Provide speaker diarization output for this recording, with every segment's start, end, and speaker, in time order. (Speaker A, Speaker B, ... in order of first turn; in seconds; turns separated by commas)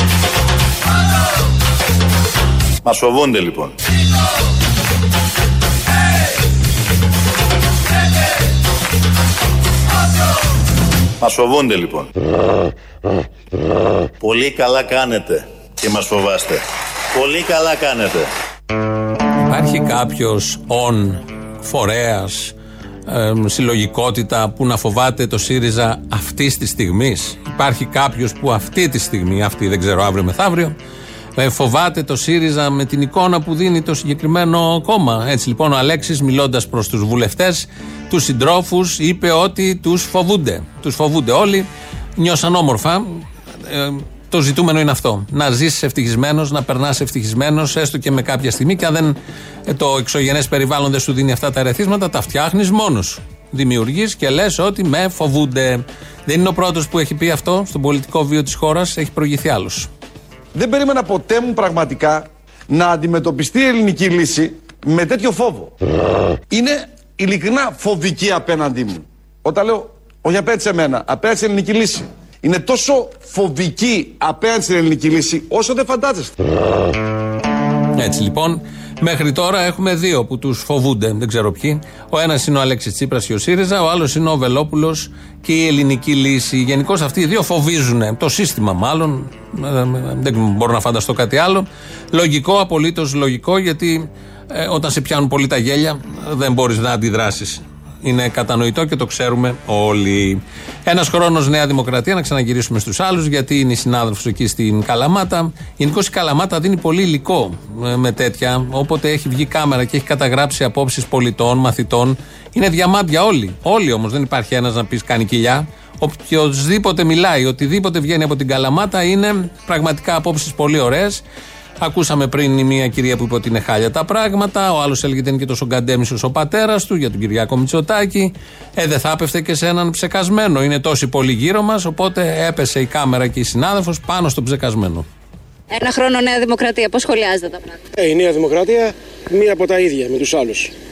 Speaker A: 2.8-3.8, Speaker A: 11.2-12.1, Speaker A: 14.2-16.6, Speaker A: 17.1-18.3, Speaker B: 19.4-22.5, Speaker B: 23.1-30.7, Speaker B: 31.4-49.2, Speaker B: 49.7-59.9, Speaker C: 60.5-65.7, Speaker C: 66.5-76.3, Speaker B: 78.0-121.2, Speaker B: 121.8-135.1, Speaker D: 135.7-137.8, Speaker E: 138.0-140.7